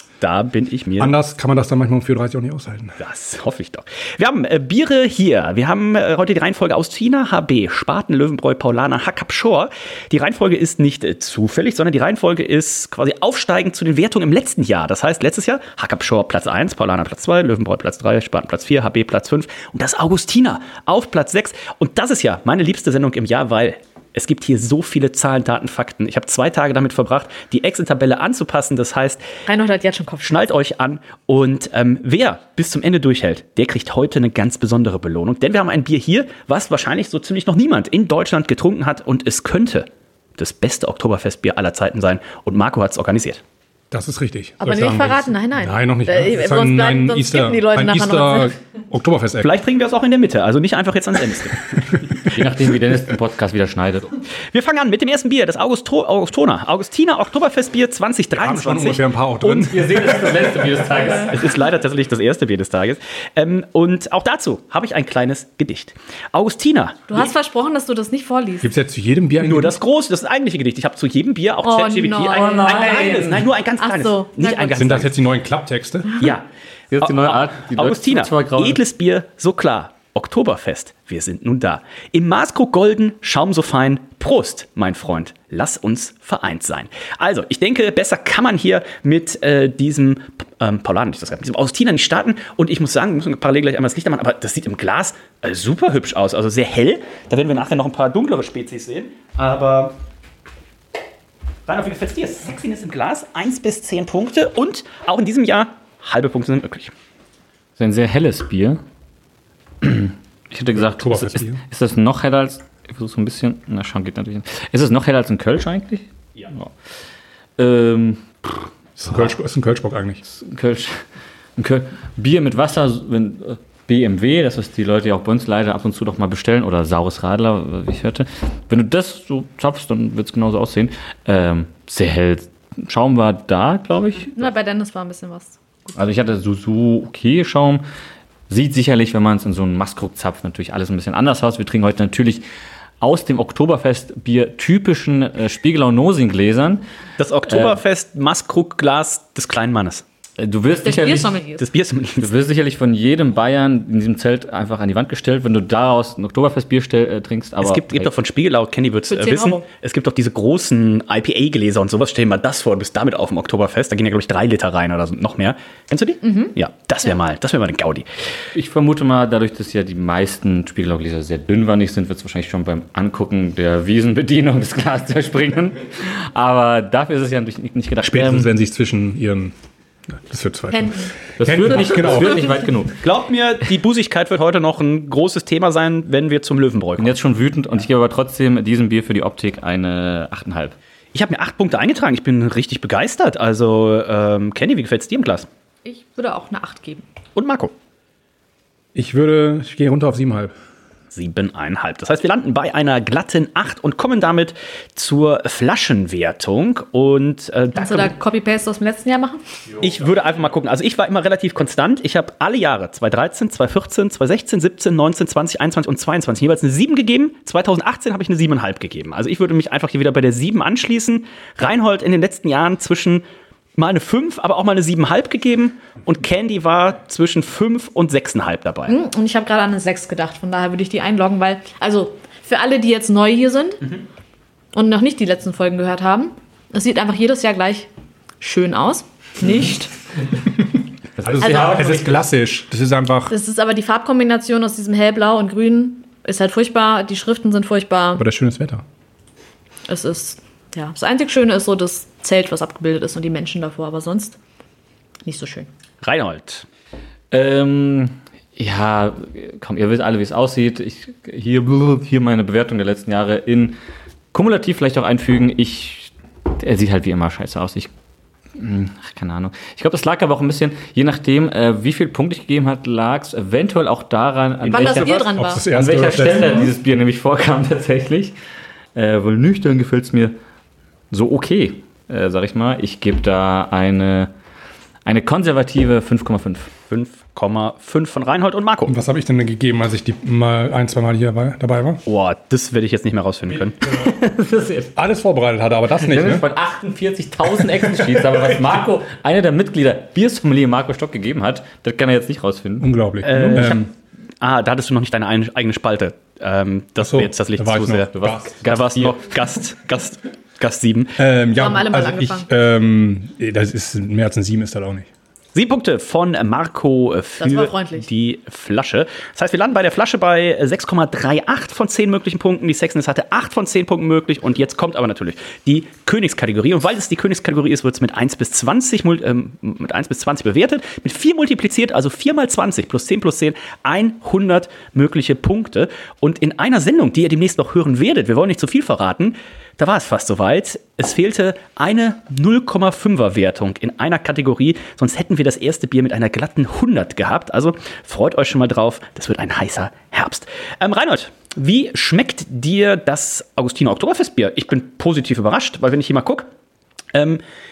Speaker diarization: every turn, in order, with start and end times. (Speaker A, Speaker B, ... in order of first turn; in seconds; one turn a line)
Speaker A: 0.2-1.1
Speaker B: 1.0-3.0
Speaker A: 3.0-29.2
Speaker C: 29.5-30.4
Speaker A: 30.2-43.4
Speaker B: 43.9-49.5
Speaker C: 44.6-48.5
Speaker A: 49.4-51.8
Speaker B: 51.8-52.2
Speaker D: 52.2-54.1
Speaker A: 54.5-59.0
Speaker B: 58.3-61.1
Speaker D: 59.4-61.4
Speaker A: 61.3-67.3
Speaker C: 67.1-68.7
Speaker B: 68.6-69.8
Speaker A: 69.4-75.1
Speaker C: 71.6-73.0
Speaker D: 72.3-73.5
Speaker C: 73.8-75.0
Speaker B: 74.7-76.1
Speaker A: 76.2-76.4
Speaker D: 76.9-78.8
Speaker A: 77.0-99.9
Speaker A: 101.7-106.9
Speaker D: 107.8-108.8
Speaker D: 109.8-116.7
Speaker B: 110.7-111.6
Speaker D: 117.6-119.3
Speaker B: 119.0-120.2
Speaker D: 120.2-121.0
Speaker D: 121.6-134.5
Speaker C: 134.3-135.6
Speaker D: 135.9-137.8
Speaker D: 138.5-142.4
Speaker D: 143.0-146.8
Speaker A: 147.2-150.0
Speaker D: 147.5-147.8
Speaker D: 150.4-151.3
Speaker C: 150.8-151.7
Speaker A: 151.6-152.3
Speaker D: 152.2-158.1
Speaker A: 157.6-168.1
Speaker C: 159.1-159.6
Speaker C: 166.2-166.5
Speaker D: 168.5-178.5
Speaker B: 178.0-179.5
Speaker B: 180.2-182.5
Speaker C: 180.7-181.1
Speaker D: 181.4-183.0
Speaker C: 182.0-182.3
Speaker A: 183.0-187.2
Speaker D: 187.0-190.7
Speaker A: 191.1-195.5
Speaker C: 195.8-197.0
Speaker A: 197.3-197.7
Speaker B: 198.9-200.5
Speaker A: 201.1-208.1
Speaker C: 207.8-209.4
Speaker A: 209.8-223.2
Speaker A: 223.8-228.9
Speaker C: 228.9-233.8
Speaker C: 234.7-237.9
Speaker C: 238.4-239.9
Speaker D: 241.2-242.2
Speaker B: 241.2-243.3
Speaker C: 243.3-248.2
Speaker B: 248.2-248.8
Speaker C: 249.9-254.4
Speaker C: 255.2-255.7
Speaker A: 256.0-256.6
Speaker D: 257.3-263.8
Speaker D: 264.3-267.9
Speaker D: 268.6-275.2
Speaker A: 274.6-275.3
Speaker C: 274.7-275.6
Speaker B: 275.4-276.7
Speaker D: 275.7-278.3
Speaker D: 278.9-280.3
Speaker D: 281.1-284.3
Speaker D: 285.0-286.7
Speaker A: 286.9-288.9
Speaker B: 288.9-292.0
Speaker A: 292.1-293.8
Speaker D: 293.9-294.9
Speaker B: 294.9-296.4
Speaker D: 296.0-302.9
Speaker B: 297.5-298.6
Speaker B: 302.8-303.9
Speaker A: 303.2-303.9
Speaker A: 304.4-308.1
Speaker B: 307.0-309.1
Speaker D: 308.1-309.2
Speaker A: 308.6-311.1
Speaker B: 311.2-315.1
Speaker C: 311.6-312.5
Speaker A: 315.5-356.5
Speaker C: 317.4-318.1
Speaker A: 357.1-357.4